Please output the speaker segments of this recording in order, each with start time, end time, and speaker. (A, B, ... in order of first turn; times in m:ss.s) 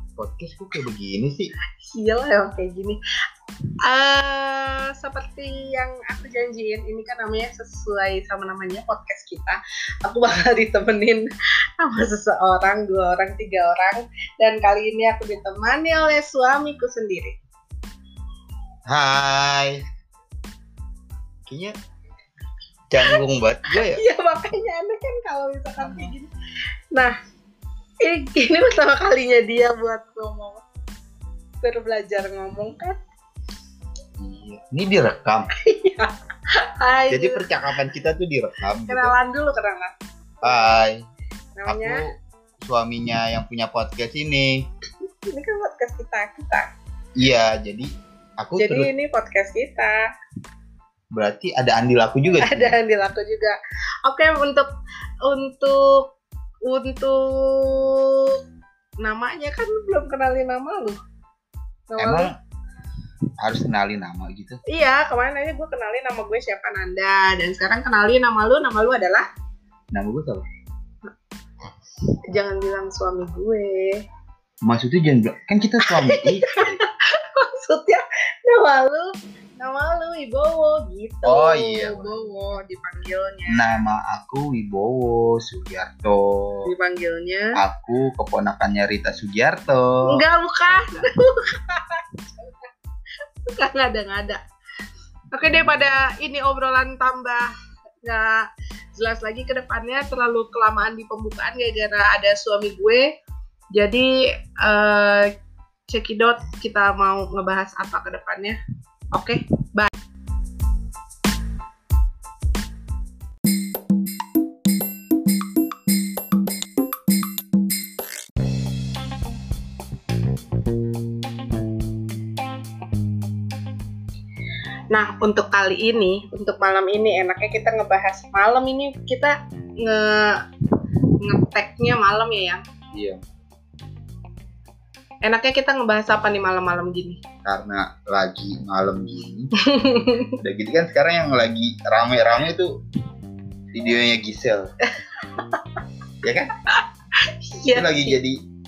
0:00.2-0:01.5 A
0:01.8-0:03.0 B
0:03.8-0:11.3 B
0:11.8-0:17.4 B
0:18.9-0:19.8 A
0:21.5-0:21.7 A
0:22.9-0:24.0 A
0:23.7-0:26.3 B
0:25.8-0:26.1 A
0:28.0-0:30.6 B
0:31.6-0:33.0 B
0:34.2-0:35.5 A
0:35.6-0:37.4 B
0:37.1-0:39.1 A
0:38.9-0:40.8 B
0:40.4-0:41.0 A
0:41.6-0:42.0 B
0:41.7-0:42.1 A
0:42.6-0:44.6 A
0:45.2-0:46.7 B
0:47.2-0:48.9 A
0:48.6-0:50.0 B
0:51.1-0:52.8 A
0:52.4-0:54.7 B
0:55.2-0:56.0 B
0:56.6-0:58.4 B
0:59.0-1:01.0 B
1:01.9-1:02.3 B
1:02.0-1:02.3 A
1:03.4-1:04.6 A
1:04.7-1:09.2 B
1:09.9-1:10.4 A
1:12.3-1:14.0 B
1:14.6-1:16.8 A
1:15.8-1:23.6 B
1:21.2-1:22.2 A
1:23.5-1:26.7 A
1:26.6-1:27.6 B
1:27.6-1:30.2 A
1:30.0-1:32.7 B
1:33.4-1:34.4 B
1:35.3-1:37.5 B
1:38.0-1:43.1 B
1:43.7-1:45.3 B
1:45.9-1:48.6 B
1:49.1-1:49.9 B
2:04.9-2:10.4 B
2:11.2-2:12.6 B
2:12.9-2:13.2 A
2:15.2-2:17.2 B
2:17.4-2:19.5 A
2:19.6-2:20.4 B
2:20.4-2:22.7 A
2:23.7-2:24.7 A
2:25.2-2:25.8 B
2:26.2-2:26.5 A
2:26.7-2:28.2 B
2:27.7-2:28.4 A